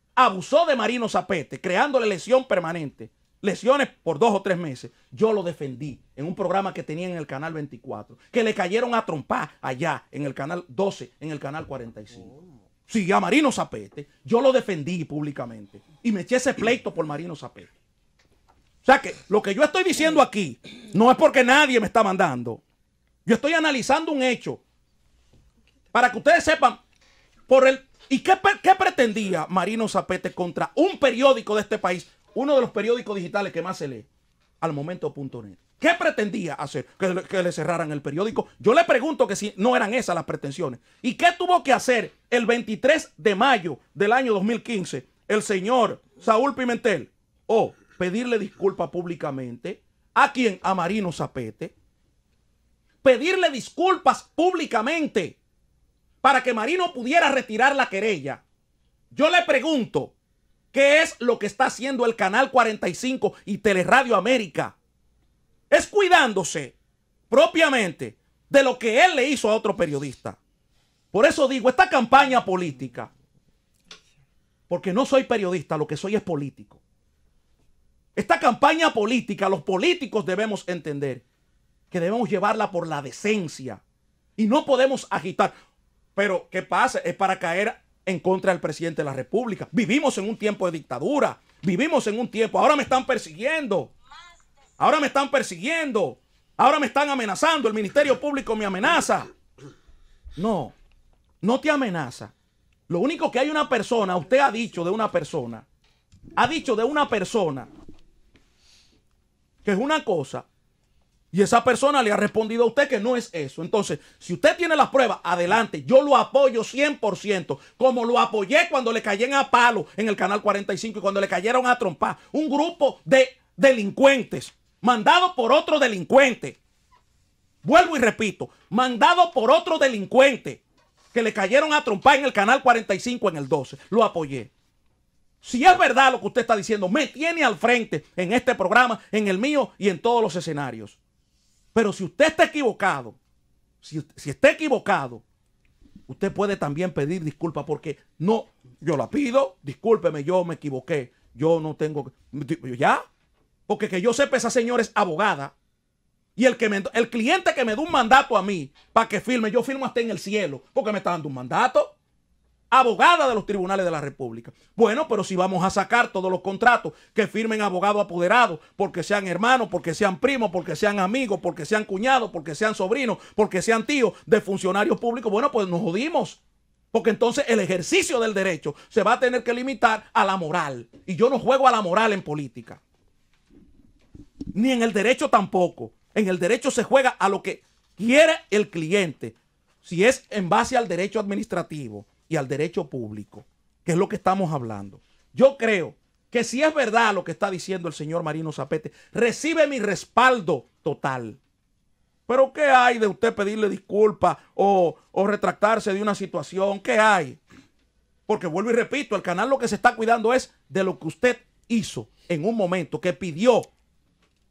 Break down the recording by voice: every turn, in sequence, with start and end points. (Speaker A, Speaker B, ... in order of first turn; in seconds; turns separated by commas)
Speaker A: 0.2-12.4, Speaker A: 12.9-17.7, Speaker A: 18.8-22.6, Speaker A: 23.3-24.6, Speaker A: 25.9-26.8, Speaker A: 27.5-34.1, Speaker A: 34.6-51.7, Speaker A: 53.0-55.4, Speaker A: 56.2-58.4, Speaker A: 59.1-60.1, Speaker A: 60.7-64.8, Speaker A: 65.7-66.8, Speaker A: 67.3-70.4, Speaker A: 71.1-73.1, Speaker A: 74.7-76.8, Speaker A: 78.2-81.2, Speaker A: 81.9-83.8, Speaker A: 84.4-85.5, Speaker A: 86.2-93.9, Speaker A: 94.8-99.3, Speaker A: 100.4-100.8, Speaker A: 101.4-102.3, Speaker A: 102.9-105.7, Speaker A: 106.4-107.7, Speaker A: 109.6-110.5, Speaker A: 111.3-126.6, Speaker A: 127.6-134.5, Speaker A: 135.4-141.0, Speaker A: 141.7-143.2, Speaker A: 143.8-145.2, Speaker A: 146.1-153.0, Speaker A: 153.7-155.6, Speaker A: 156.4-162.0, Speaker A: 162.7-176.4, Speaker A: 176.9-182.8, Speaker A: 184.5-201.4, Speaker A: 202.3-207.4, Speaker A: 208.3-213.7